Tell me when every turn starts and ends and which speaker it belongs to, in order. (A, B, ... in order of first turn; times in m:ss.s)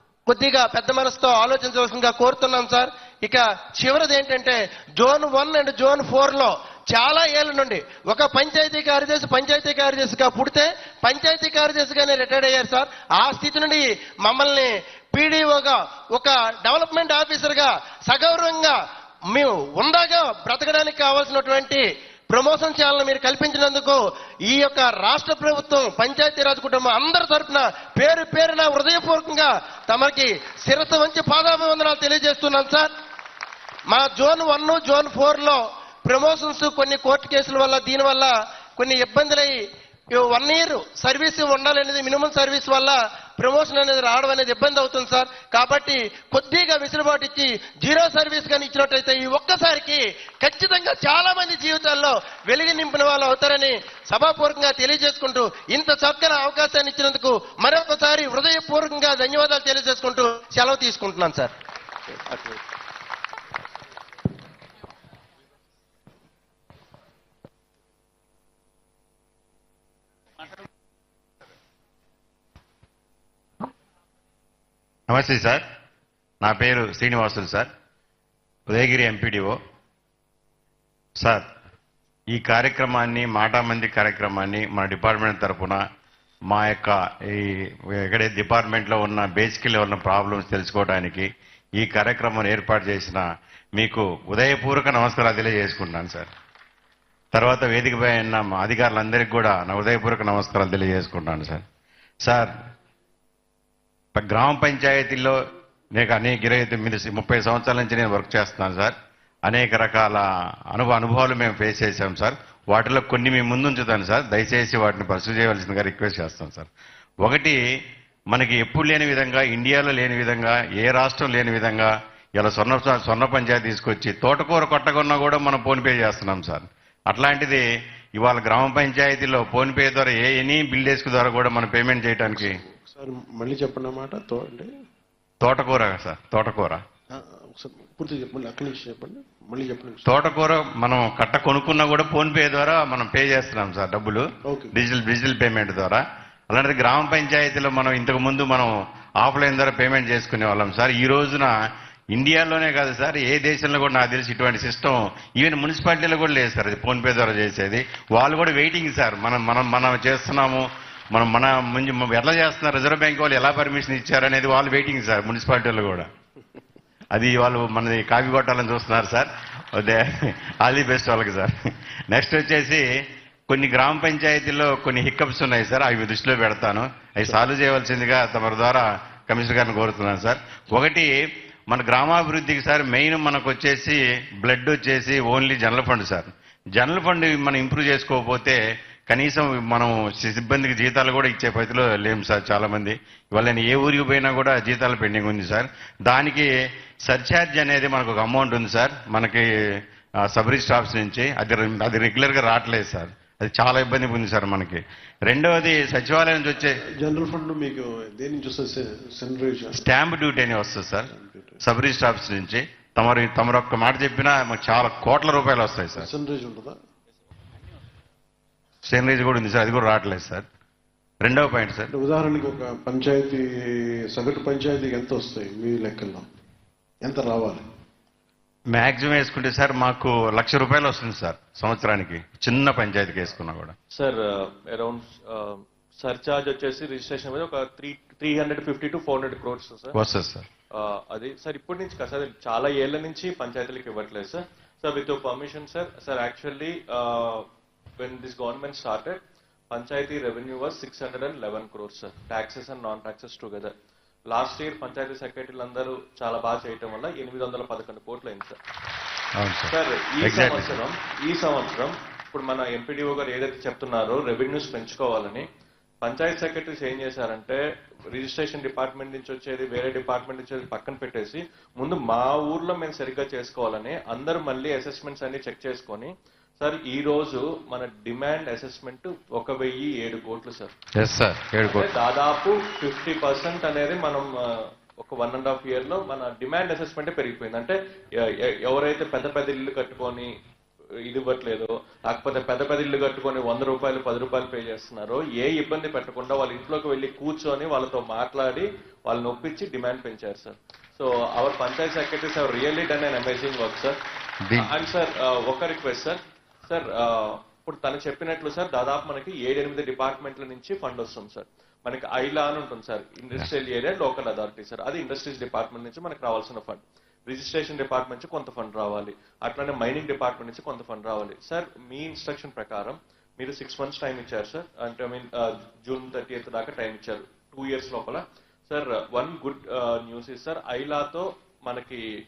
0:00.3-0:18.8 A
0:19.3-0:32.9 A
0:33.9-0:39.6 A
0:40.1-1:01.5 A
1:02.1-1:02.6 B
1:15.1-1:15.6 C
1:16.4-1:17.7 C
1:18.7-1:19.6 C
1:22.3-1:25.8 C
1:26.5-1:31.3 C
1:31.8-1:33.2 C
1:33.8-1:36.3 C
1:37.3-1:41.6 C
1:42.2-1:42.5 C
1:44.2-1:45.4 C
1:46.0-1:48.9 C
1:49.5-1:56.7 C
1:57.2-1:57.6 C
1:58.3-2:07.6 C
2:08.2-2:12.6 C
2:12.3-2:14.7 D
2:15.4-2:16.8 C
2:17.1-2:20.1 D
2:20.1-2:31.5 C
2:24.5-2:24.7 D
2:32.1-2:46.1 C
2:47.1-2:51.5 C
2:52.1-2:52.8 C
2:53.5-3:01.1 C
3:01.7-3:08.6 C
3:09.1-3:16.5 C
3:17.1-3:19.6 C
3:20.3-3:26.8 C
3:27.0-3:29.8 D
3:29.7-3:31.1 C
3:31.1-3:31.6 D
3:31.6-3:36.1 C
3:36.0-3:36.8 D
3:38.8-3:40.5 C
3:41.2-3:41.9 C
3:41.9-3:46.3 D
3:47.0-3:47.6 D
3:48.7-3:53.7 C
3:53.9-4:00.0 B
3:59.9-4:00.5 C
4:00.8-4:07.4 B
4:08.0-4:09.2 B
4:09.7-4:13.7 B
4:14.3-4:18.6 B
4:19.4-4:20.8 C
4:19.7-4:25.4 B
4:26.0-4:40.7 B
4:41.0-4:41.9 C
4:41.6-4:50.3 B
4:51.1-5:04.0 B
5:04.6-5:32.1 B